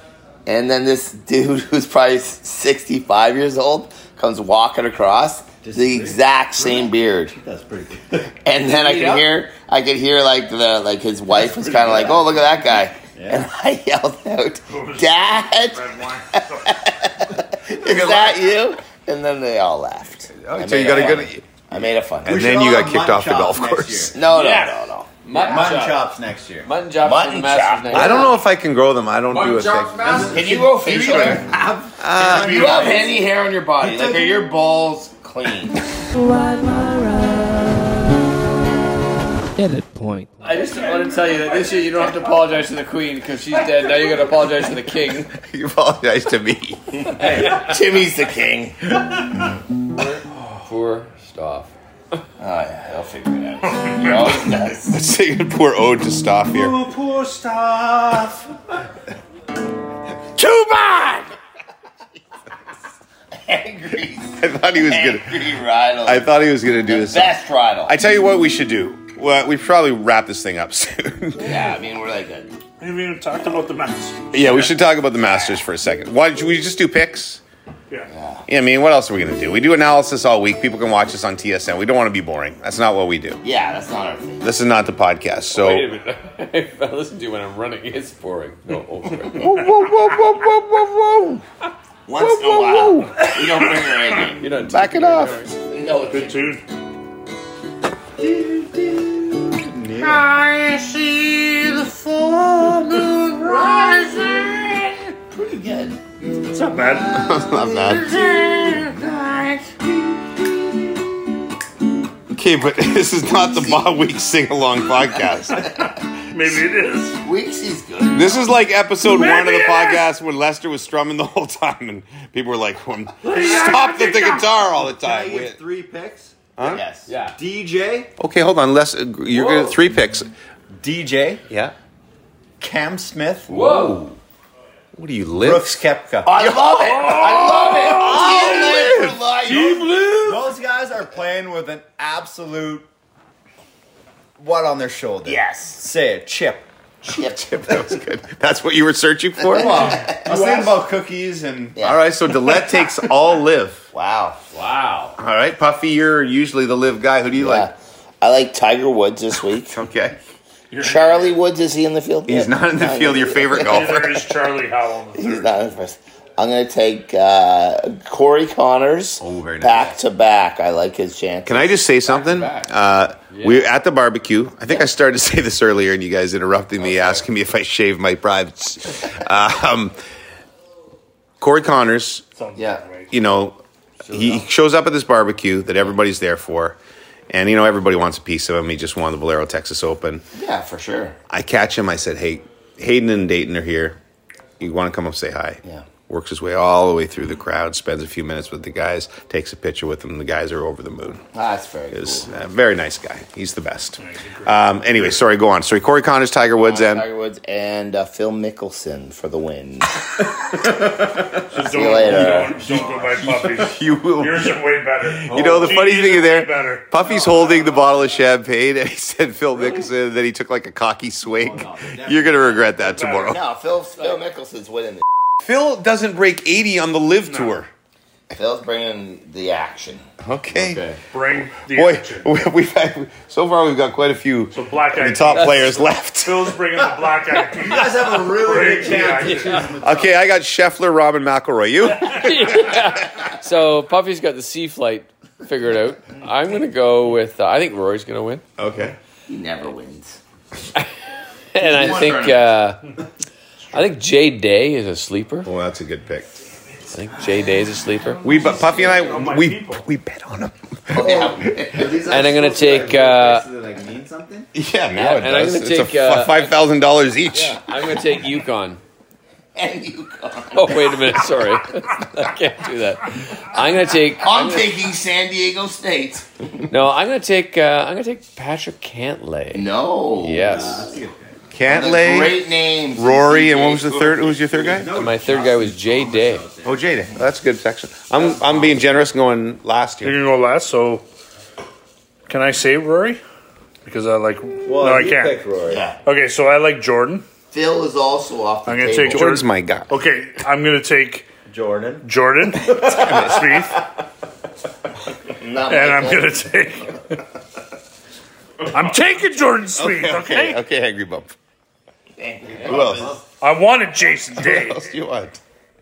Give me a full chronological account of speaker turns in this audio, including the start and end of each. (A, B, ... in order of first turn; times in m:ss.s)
0:00.5-0:07.4 A
0:05.6-0:08.3 B
0:08.4-0:22.4 A
0:08.7-0:09.3 C
0:11.4-0:12.3 B
0:13.0-0:13.5 B
0:14.7-0:16.7 D
0:17.7-0:18.4 B
0:20.4-0:21.4 E
0:20.8-0:21.2 B
0:22.2-0:24.2 E
0:22.2-0:24.2 B
0:24.1-0:25.6 A
0:24.3-0:24.7 C
0:25.2-0:26.1 C
0:25.3-0:26.7 B
0:26.6-0:28.4 C
0:27.0-0:28.4 A
0:27.9-0:30.1 E
0:29.3-0:30.5 C
0:30.0-0:33.2 B
0:30.3-0:35.8 A
0:32.0-0:33.0 E
0:33.8-0:34.4 B
0:36.1-0:38.0 F
0:39.6-0:40.6 F
0:40.4-0:45.3 C
0:45.3-0:47.4 E
0:47.0-0:48.8 A
0:47.2-0:47.7 C
0:49.9-0:51.7 C
0:52.4-0:55.0 A
0:53.7-0:54.4 D
0:54.9-0:56.8 E
0:56.6-0:58.4 D
0:56.9-0:57.8 B
1:00.4-1:01.2 D
1:03.3-1:08.0 A
1:04.4-1:05.5 E
1:06.0-1:11.7 E
1:11.4-1:12.5 A
1:12.8-1:14.7 D
1:14.3-1:17.4 E
1:18.1-1:18.4 A
1:18.5-1:23.4 E
1:23.4-1:24.5 A
1:24.4-1:25.9 E
1:25.5-1:29.5 C
1:29.3-1:31.4 E
1:32.1-1:34.4 A
1:32.2-1:33.3 E
1:34.4-1:35.6 C
1:34.7-1:35.5 E
1:35.7-1:36.6 A
1:36.1-1:36.6 D
1:38.2-1:40.2 B
1:40.0-1:46.0 A
1:46.5-1:47.2 D
1:47.0-1:50.4 A
1:47.1-1:48.3 E
1:52.3-1:55.7 E
1:53.4-1:53.9 A
1:55.5-1:56.0 A
1:56.0-1:57.2 D
1:57.2-1:58.5 A
1:58.1-2:05.6 E
1:59.0-2:00.0 D
2:03.2-2:04.5 D
2:05.0-2:06.3 B
2:06.6-2:06.8 E
2:06.6-2:07.1 A
2:07.1-2:07.4 C
2:07.4-2:08.1 B
2:08.2-2:10.3 E
2:09.3-2:09.8 C
2:10.8-2:11.4 B
2:11.5-2:11.7 E
2:12.6-2:13.8 B
2:13.5-2:14.1 C
2:13.6-2:14.1 E
2:14.9-2:15.8 E
2:15.4-2:16.5 B
2:16.2-2:19.9 A
2:16.4-2:19.2 E
2:16.8-2:18.3 D
2:19.5-2:20.1 D
2:20.1-2:22.8 B
2:24.4-2:26.6 B
2:25.2-2:25.8 A
2:27.0-2:27.5 A
2:27.1-2:30.1 E
2:29.5-2:30.8 A
2:29.5-2:31.8 B
2:31.8-2:32.0 A
2:31.8-2:33.9 E
2:33.9-2:34.4 A
2:34.5-2:35.2 C
2:35.2-2:37.7 E
2:37.4-2:39.8 A
2:39.7-2:40.2 E
2:40.7-2:41.4 D
2:40.8-2:44.0 A
2:42.3-2:44.2 E
2:43.6-2:45.5 D
2:45.1-2:51.8 A
2:49.2-2:50.0 E
2:51.4-3:00.0 E
2:52.0-2:52.7 C
2:53.3-2:53.7 C
3:01.4-3:02.2 E
3:02.4-3:03.1 D
3:02.6-3:02.8 A
3:03.1-3:06.8 E
3:04.0-3:04.4 C
3:07.3-3:10.2 E
3:10.4-3:11.2 A
3:11.3-3:14.0 E
3:14.6-3:21.2 E
3:21.3-3:22.3 A
3:21.9-3:27.1 E
3:24.0-3:24.6 D
3:26.6-3:30.1 A
3:31.5-3:37.7 D
3:31.5-3:33.3 A
3:32.1-3:32.4 E
3:33.2-3:43.4 E
3:41.3-3:43.0 B
3:43.0-3:43.4 D
3:43.1-3:45.0 A
3:45.4-3:47.7 E
3:47.3-3:47.6 D
3:48.3-3:50.0 A
3:50.2-3:50.8 E
3:50.5-3:51.0 C
3:51.1-3:52.3 D
3:51.6-3:56.6 E
3:54.5-3:59.7 D
3:57.6-4:00.2 B
3:58.9-3:59.6 C
3:59.8-4:02.7 E
4:02.0-4:08.4 C
4:08.6-4:09.0 E
4:09.3-4:10.2 A
4:11.5-4:12.8 C
4:11.6-4:12.5 A
4:13.7-4:15.5 C
4:15.4-4:16.3 E
4:16.9-4:18.2 C
4:18.2-4:19.8 D
4:18.2-4:21.7 E
4:20.9-4:21.9 A
4:21.0-4:24.5 B
4:22.1-4:23.5 C
4:24.5-4:27.7 E
4:25.0-4:26.6 C
4:27.3-4:28.8 C
4:29.6-4:31.3 A
4:30.5-4:34.8 C
4:34.2-4:36.5 A
4:36.7-4:39.7 C
4:39.5-4:40.9 A
4:40.2-4:40.9 C
4:40.5-4:41.4 B
4:41.5-4:42.4 E
4:41.6-4:44.5 A
4:43.0-4:45.0 E
4:44.5-4:46.9 B
4:45.0-4:46.5 C
4:46.6-4:50.2 E
4:48.2-4:48.6 B
4:50.0-4:51.0 D
4:52.3-4:53.2 D
4:53.8-4:55.4 D
4:54.6-4:55.9 B
4:55.7-4:56.0 A
4:56.0-4:57.2 D
4:57.5-4:59.3 A
4:58.7-5:01.3 D
4:59.1-4:59.9 E
5:01.5-5:02.1 B
5:02.0-5:03.8 D
5:02.6-5:03.8 B
5:03.0-5:03.4 E
5:05.4-5:06.4 A
5:05.7-5:07.2 D
5:08.7-5:10.6 D
5:09.8-5:11.3 E
5:12.2-5:13.2 A
5:12.6-5:13.2 C
5:12.6-5:13.1 E
5:13.4-5:14.9 D
5:14.4-5:15.4 E